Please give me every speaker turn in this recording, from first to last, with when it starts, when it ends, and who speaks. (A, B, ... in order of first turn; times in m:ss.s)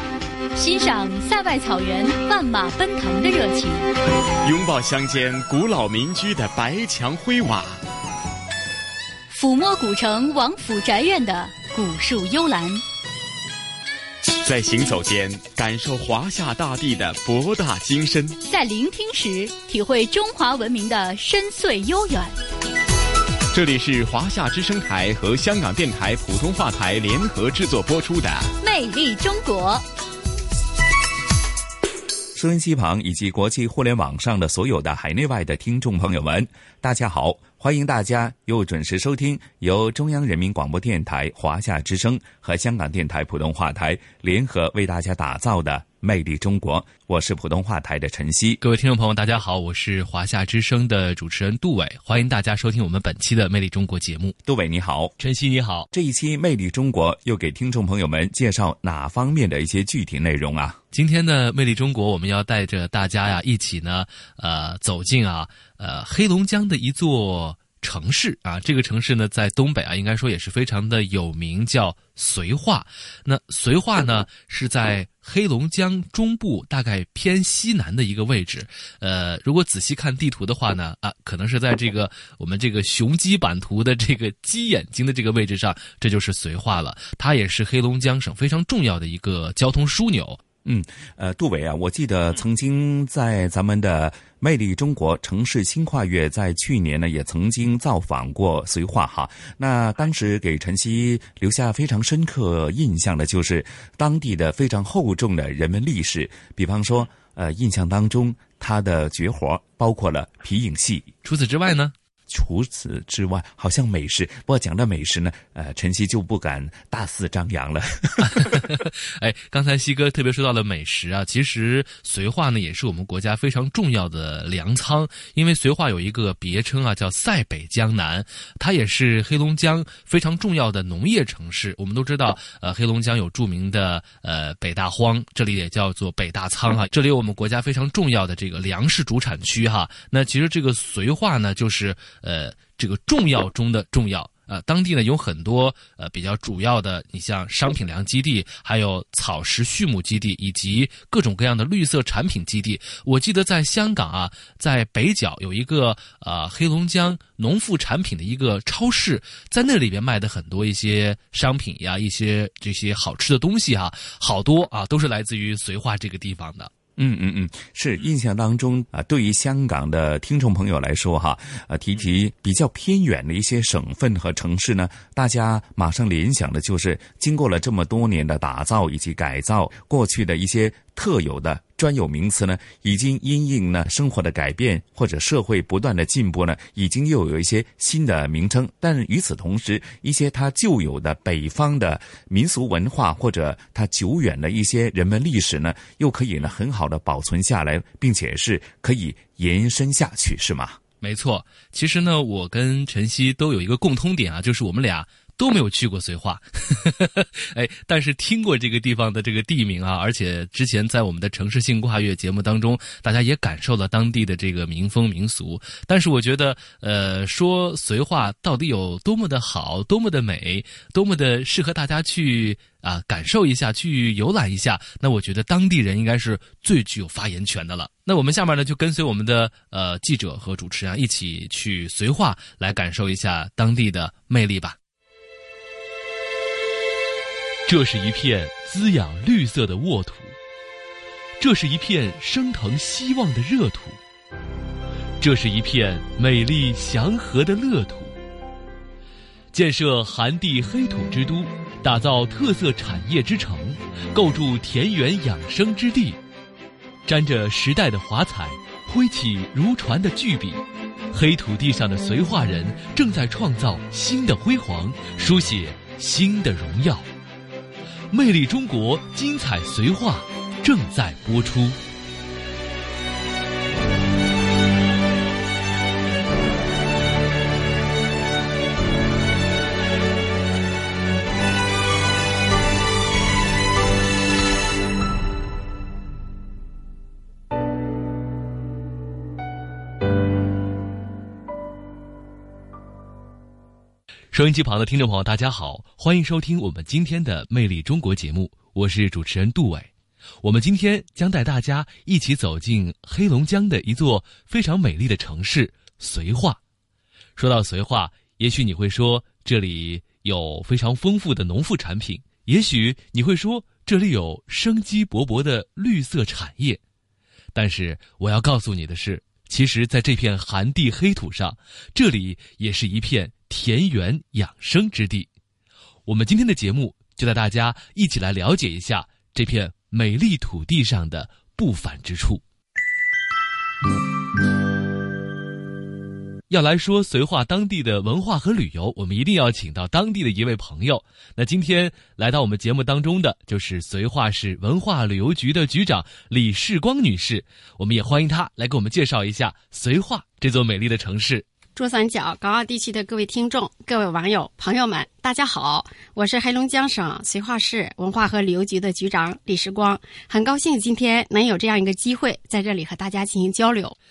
0:00.5-0:03.9 A
0:04.4-0:07.8 B
0:09.3-0:12.8 A
0:14.4-0:18.4 B
0:18.4-0:22.4 A
0:23.5-0:28.5 B
0:28.6-0:29.8 A
0:32.3-0:48.6 C
0:48.6-0:54.3 D
0:54.4-0:55.1 C
0:55.2-0:55.9 D
0:55.9-1:00.8 C
1:00.9-1:30.4 D
1:30.6-1:51.1 C
1:51.2-1:51.9 D
1:52.3-1:58.6 C
1:58.3-2:46.7 D
2:47.0-3:20.8 C
3:21.0-3:54.8 D
3:57.6-4:00.3 D
4:01.4-4:04.0 D
4:05.2-4:08.1 D
4:09.5-4:16.2 D
4:17.0-4:27.1 D
4:28.1-4:31.8 D
4:54.3-4:59.9 D
5:00.4-5:06.6 D
5:07.4-5:16.8 D
5:17.5-5:25.3 D
5:26.0-5:32.4 D
5:36.5-5:51.4 D
5:51.8-6:04.0 E